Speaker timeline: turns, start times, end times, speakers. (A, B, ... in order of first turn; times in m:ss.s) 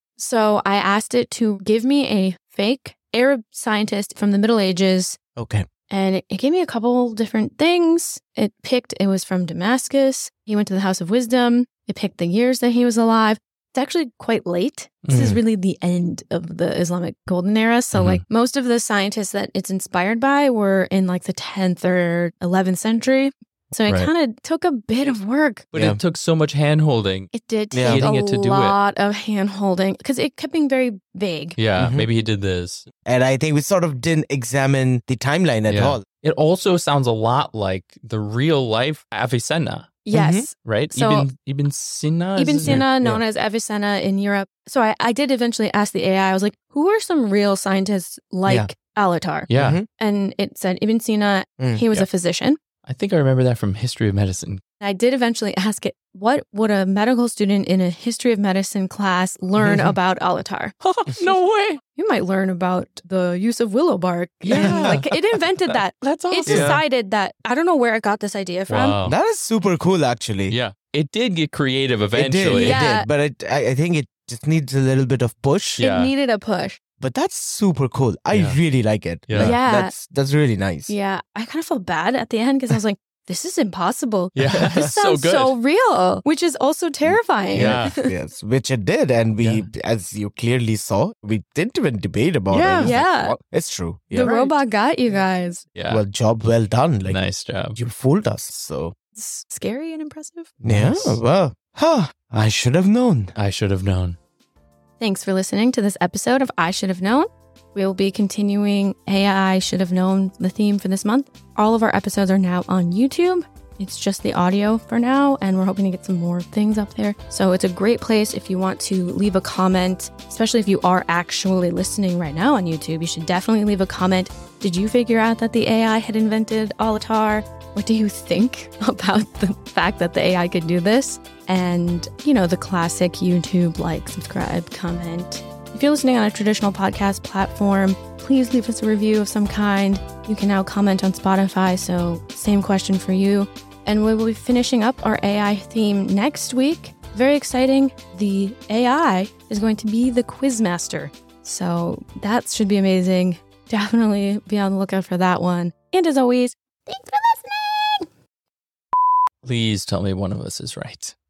0:00.2-0:05.2 A
0:05.4-0:05.6 B
0:05.9-0:25.7 A
0:15.1-0:15.4 C
0:15.1-0:15.4 B
0:17.9-0:18.2 C
0:25.7-0:28.8 C
0:25.7-0:26.0 B
0:27.3-0:31.6 A
0:27.7-0:28.1 B
0:31.6-0:32.8 C
0:31.8-0:32.1 B
0:33.0-0:36.0 B
0:35.7-0:39.9 C
0:40.0-0:41.3 A
0:40.1-0:40.5 B
0:40.6-0:42.8 C
0:42.4-0:52.6 A
0:42.6-0:43.2 B
0:48.4-0:48.7 B
0:49.5-0:49.8 C
0:49.5-0:49.9 B
0:51.6-0:51.8 B
0:52.8-0:54.6 C
0:54.8-1:00.7 A
1:00.8-1:01.8 C
1:01.9-1:09.0 A
1:04.4-1:05.1 C
1:04.5-1:05.0 B
1:05.7-1:06.8 C
1:06.4-1:06.8 B
1:08.7-1:09.2 C
1:09.0-1:10.6 B
1:10.5-1:12.9 C
1:12.2-1:15.8 B
1:12.5-1:13.1 A
1:15.8-1:16.1 C
1:15.8-1:16.8 A
1:17.0-1:20.9 B
1:18.3-1:18.6 C
1:19.3-1:19.6 C
1:19.4-1:19.9 A
1:20.9-1:28.1 A
1:24.3-1:25.6 C
1:24.5-1:24.8 B
1:27.0-1:34.4 B
1:27.5-1:28.0 C
1:29.4-1:29.7 C
1:32.5-1:33.4 A
1:34.1-1:35.6 A
1:34.2-1:34.5 C
1:35.7-1:36.0 C
1:35.9-1:37.2 B
1:37.0-1:37.8 C
1:37.7-1:38.9 B
1:39.1-1:40.5 A
1:40.6-1:41.2 C
1:40.6-1:43.3 B
1:43.4-1:44.2 C
1:45.0-2:38.0 A
2:39.4-2:41.1 C